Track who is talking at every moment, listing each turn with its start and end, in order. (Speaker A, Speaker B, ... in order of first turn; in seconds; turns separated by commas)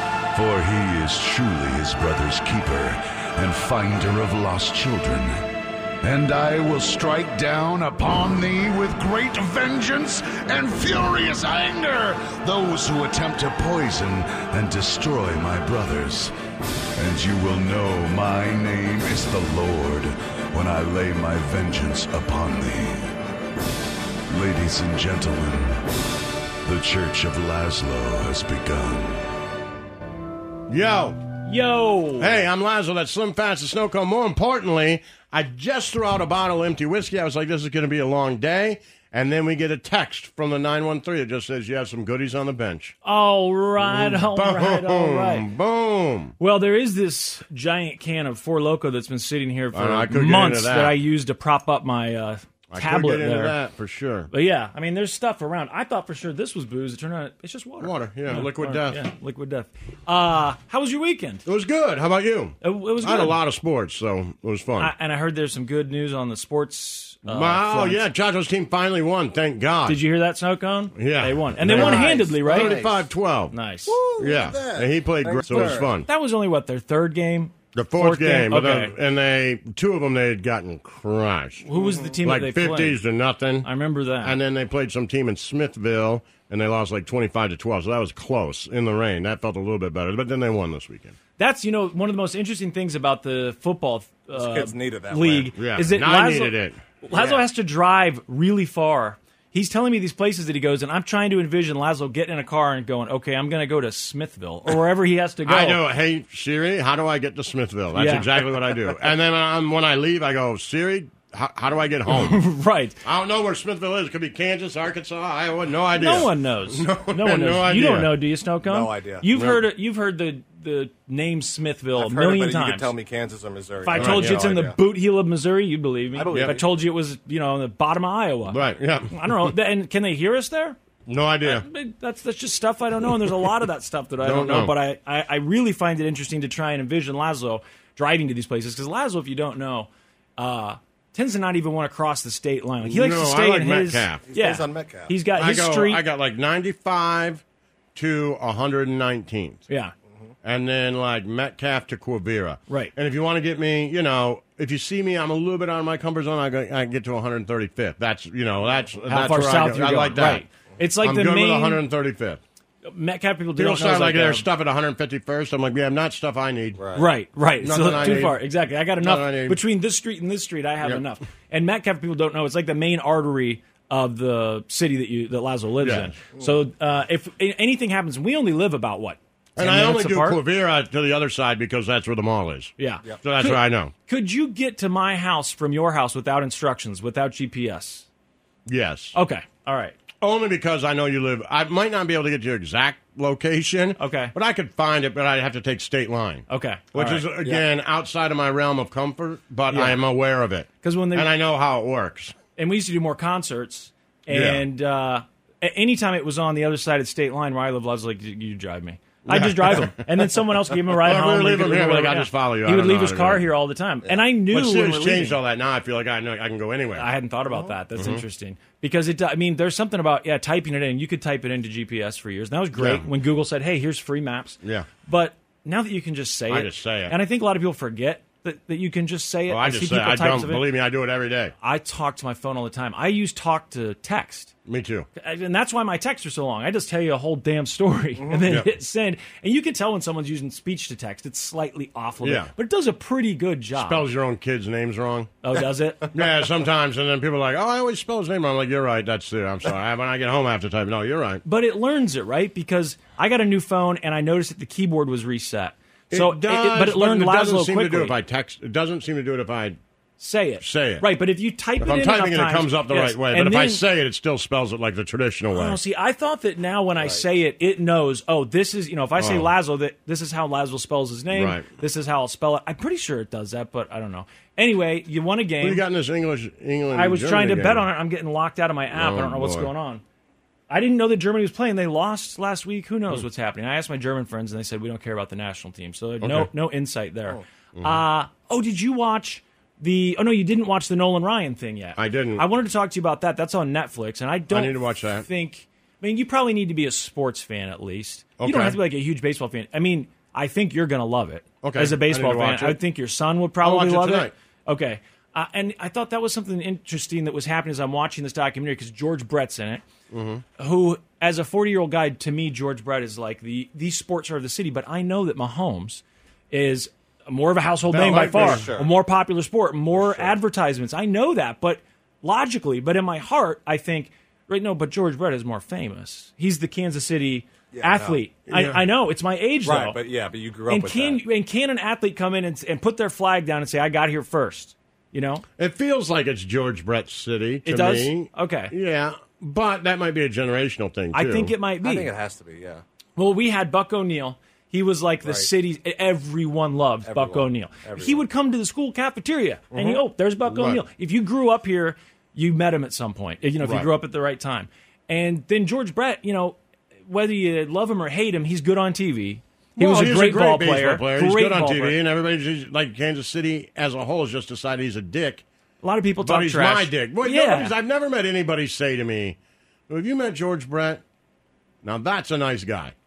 Speaker A: 0.3-5.3, Speaker A: 6.0-16.3, Speaker A: 17.0-23.1, Speaker A: 24.3-25.8, Speaker A: 26.6-29.3, Speaker B: 30.7-31.2, Speaker C: 31.4-32.4, Speaker B: 32.2-43.0, Speaker C: 43.0-45.5, Speaker B: 43.8-46.3, Speaker C: 46.4-53.6, Speaker B: 49.7-51.0, Speaker B: 52.7-54.3, Speaker C: 54.3-61.4, Speaker B: 57.8-59.0, Speaker B: 61.5-64.9, Speaker C: 62.6-63.4, Speaker C: 64.8-68.1, Speaker B: 67.3-70.0, Speaker C: 69.9-72.8, Speaker B: 71.0-73.5, Speaker D: 71.6-73.1, Speaker C: 73.5-74.0, Speaker D: 73.9-75.9, Speaker B: 74.2-76.1, Speaker C: 75.5-78.9, Speaker B: 77.8-81.7, Speaker C: 81.7-83.0, Speaker D: 81.8-82.1, Speaker B: 82.2-83.7, Speaker C: 83.6-84.4, Speaker B: 84.2-91.2, Speaker C: 91.4-105.8, Speaker D: 94.3-95.5, Speaker B: 95.5-96.8, Speaker D: 97.1-97.4, Speaker B: 105.5-112.5, Speaker C: 108.0-108.5, Speaker C: 112.1-113.0, Speaker B: 113.0-118.2, Speaker C: 115.9-123.0, Speaker D: 118.7-119.3, Speaker B: 119.3-119.6, Speaker D: 122.0-124.8, Speaker C: 123.8-130.8, Speaker B: 123.9-124.7, Speaker D: 126.1-126.7, Speaker B: 126.3-126.6, Speaker B: 128.5-129.5, Speaker B: 131.1-131.7, Speaker C: 131.4-146.0, Speaker B: 134.2-134.8, Speaker B: 142.8-144.3, Speaker D: 144.2-145.2, Speaker B: 145.3-147.4, Speaker B: 147.9-149.6, Speaker C: 149.7-149.9, Speaker B: 150.4-160.4, Speaker C: 159.1-161.8, Speaker B: 161.0-162.4, Speaker C: 162.8-164.4, Speaker B: 163.6-166.8, Speaker D: 166.8-167.1, Speaker C: 166.9-180.4, Speaker B: 167.6-168.4, Speaker B: 169.0-169.6, Speaker B: 175.8-176.1, Speaker B: 179.6-183.9, Speaker C: 182.8-188.1, Speaker B: 188.7-189.2, Speaker C: 189.2-190.0, Speaker B: 190.2-202.4, Speaker C: 194.0-194.3, Speaker C: 196.5-197.3, Speaker C: 199.7-200.0, Speaker C: 200.8-201.3, Speaker C: 202.6-215.4, Speaker B: 204.3-204.6, Speaker B: 209.3-210.1, Speaker B: 210.9-213.5, Speaker B: 214.5-217.1, Speaker C: 217.0-230.7, Speaker B: 217.9-218.2, Speaker B: 222.8-223.1, Speaker B: 224.6-224.9, Speaker B: 226.5-227.2, Speaker B: 229.5-231.5, Speaker C: 231.6-234.5, Speaker B: 234.7-235.1, Speaker C: 235.2-244.1, Speaker B: 238.4-238.7, Speaker B: 242.2-242.5, Speaker B: 243.8-245.3, Speaker C: 245.4-246.1, Speaker B: 246.1-251.4, Speaker C: 251.4-258.1, Speaker B: 256.1-259.8, Speaker C: 260.2-263.8, Speaker B: 260.6-261.1, Speaker B: 261.8-265.8, Speaker C: 265.5-275.8, Speaker B: 269.2-269.5, Speaker B: 271.3-271.6, Speaker B: 275.6-277.9, Speaker C: 276.9-280.0, Speaker B: 278.9-279.7, Speaker C: 280.7-309.8, Speaker B: 286.2-286.5, Speaker B: 287.8-288.0, Speaker B: 292.0-292.4, Speaker B: 294.5-295.3, Speaker B: 298.4-298.8, Speaker B: 301.6-302.8, Speaker B: 303.6-304.3, Speaker B: 310.1-310.4, Speaker C: 310.6-330.0, Speaker B: 317.9-318.7, Speaker D: 318.0-318.9, Speaker D: 320.0-320.4, Speaker D: 327.7-328.2, Speaker B: 328.5-328.8, Speaker D: 329.6-331.2, Speaker C: 330.7-335.4, Speaker B: 335.6-341.6, Speaker C: 337.6-338.7, Speaker C: 341.1-342.1, Speaker D: 341.8-342.8, Speaker C: 343.2-362.0, Speaker D: 347.1-348.2, Speaker D: 349.7-350.0, Speaker B: 350.4-350.8, Speaker B: 353.6-353.9, Speaker B: 359.8-365.4, Speaker C: 365.8-367.7, Speaker B: 366.2-369.4, Speaker B: 369.9-371.0, Speaker B: 371.8-372.9